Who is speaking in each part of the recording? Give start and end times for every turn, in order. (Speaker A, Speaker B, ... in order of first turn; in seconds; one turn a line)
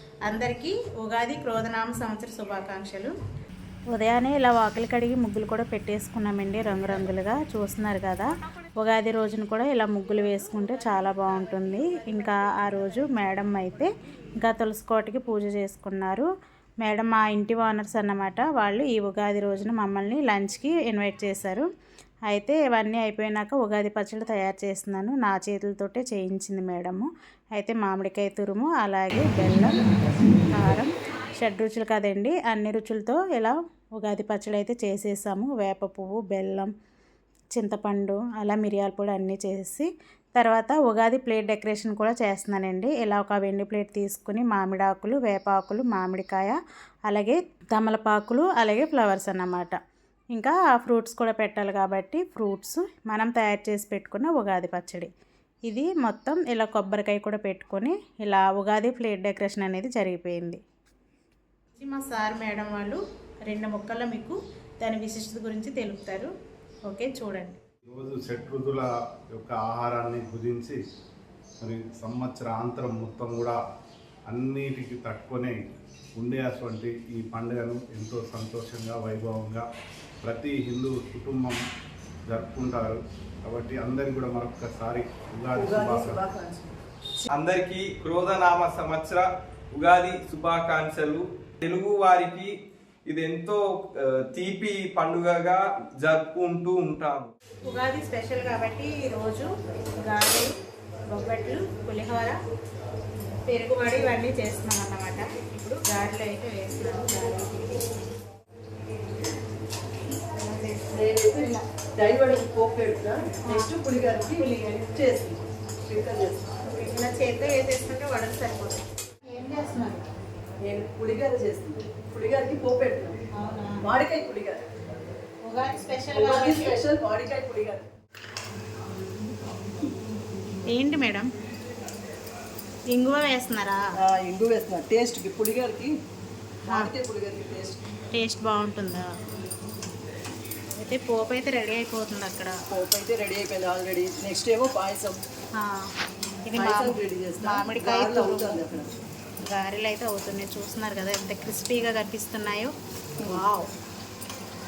Speaker A: 0.2-3.1
Speaker A: 3.9-16.3
Speaker A: 16.8-21.7
Speaker A: 22.3-29.8
Speaker A: 30.5-36.7
Speaker A: 37.5-46.6
Speaker A: 47.1-49.8
Speaker A: 50.3-55.1
Speaker A: 55.7-60.6
Speaker A: 61.8-66.3
Speaker A: 66.9-67.6
Speaker B: 67.9-70.8
Speaker B: 71.6-73.6
Speaker B: 74.3-75.6
Speaker B: 76.2-79.7
Speaker B: 80.2-81.6
Speaker B: 82.3-86.2
Speaker C: 85.5-86.7
Speaker D: 87.3-92.5
Speaker D: 93.1-97.3
Speaker A: 97.7-99.5
Speaker A: 100.0-100.5
Speaker A: 101.1-102.4
Speaker A: 103.5-107.8
Speaker A: 110.4-110.8
Speaker C: 110.9-116.5
Speaker A: 111.4-111.6
Speaker A: 116.7-120.1
Speaker C: 120.7-123.2
Speaker A: 123.3-123.8
Speaker C: 123.8-124.6
Speaker A: 125.4-126.8
Speaker C: 126.1-127.9
Speaker A: 130.7-131.3
Speaker A: 132.9-133.8
Speaker C: 134.0-135.9
Speaker C: 136.7-137.8
Speaker A: 138.1-139.1
Speaker A: 140.8-142.5
Speaker C: 142.7-145.2
Speaker A: 145.6-145.9
Speaker A: 146.5-148.6
Speaker C: 146.6-148.9
Speaker A: 149.5-152.7
Speaker A: 153.2-153.7